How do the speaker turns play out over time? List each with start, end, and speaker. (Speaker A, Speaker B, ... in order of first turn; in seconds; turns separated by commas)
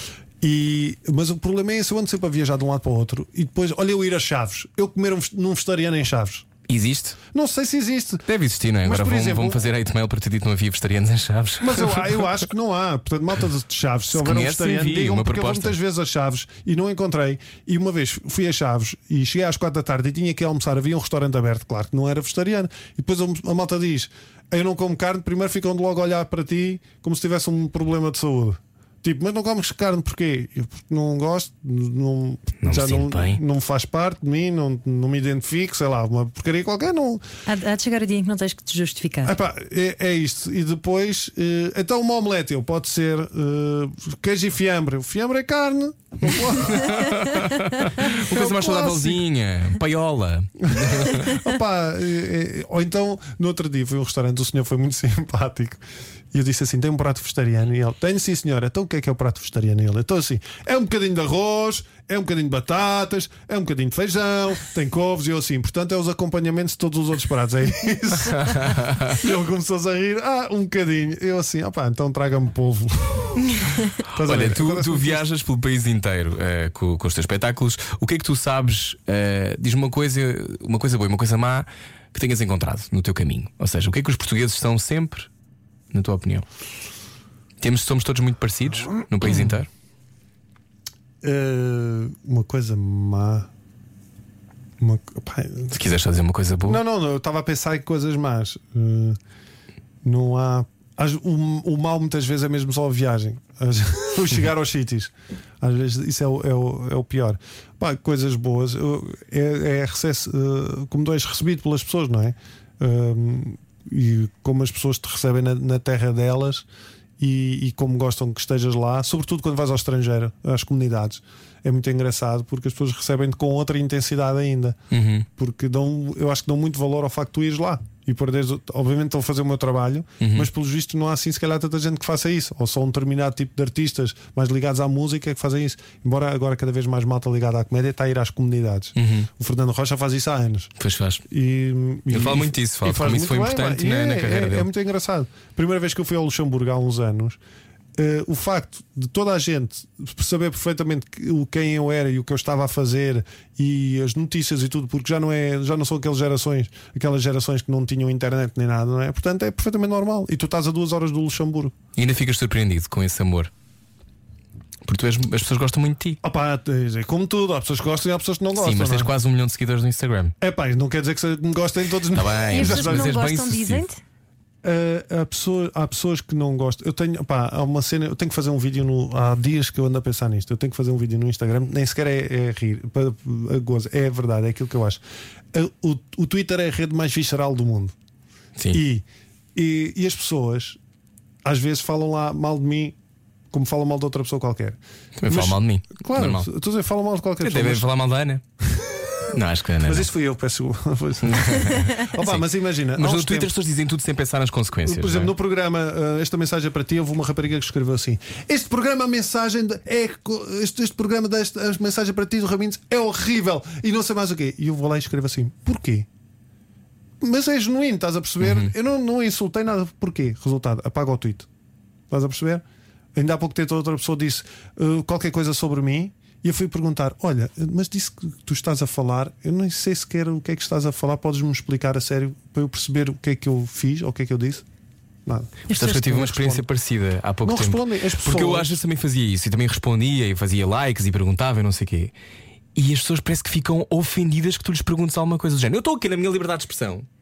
Speaker A: 0.4-6.5, Speaker B: 6.7-7.2, Speaker A: 7.3-8.3, Speaker B: 8.3-12.2, Speaker A: 8.8-9.6, Speaker A: 11.6-37.2, Speaker B: 14.1-15.8, Speaker B: 32.6-33.4, Speaker C: 37.5-39.3, Speaker A: 39.2-47.4, Speaker B: 46.5-51.4, Speaker A: 48.0-49.2, Speaker A: 50.6-75.2, Speaker B: 68.4-69.2, Speaker C: 73.5-73.8, Speaker B: 74.2-85.3, Speaker B: 85.9-86.5, Speaker B: 87.6-89.7, Speaker A: 89.2-89.6, Speaker A: 91.2-93.5, Speaker A: 94.8-95.8, Speaker B: 95.7-96.8, Speaker A: 96.7-99.2, Speaker A: 100.0-116.7, Speaker A: 117.2-124.8, Speaker B: 124.9-125.3, Speaker A: 125.4-140.7, Speaker B: 130.2-130.5, Speaker B: 139.0-139.3, Speaker B: 140.8-141.2, Speaker A: 141.3-147.4, Speaker B: 142.1-144.7, Speaker A: 148.0-161.8, Speaker B: 162.0-163.5, Speaker B: 164.8-166.2, Speaker A: 166.2-169.1, Speaker B: 168.6-170.3, Speaker A: 170.4-173.2, Speaker B: 172.1-173.8, Speaker C: 172.5-174.0, Speaker A: 174.6-185.0, Speaker A: 185.5-187.9, Speaker A: 188.7-190.8, Speaker A: 191.4-193.0, Speaker A: 193.5-197.9, Speaker B: 195.2-196.5, Speaker B: 197.4-198.4, Speaker A: 198.7-199.2, Speaker B: 199.3-200.1, Speaker A: 199.8-203.5, Speaker B: 201.2-205.3, Speaker A: 204.9-216.1, Speaker A: 217.2-221.5, Speaker B: 218.4-218.7, Speaker A: 222.1-222.6, Speaker A: 223.2-234.7, Speaker A: 235.3-236.7, Speaker C: 235.7-236.0, Speaker B: 235.7-242.1, Speaker A: 237.4-238.8, Speaker B: 242.8-247.1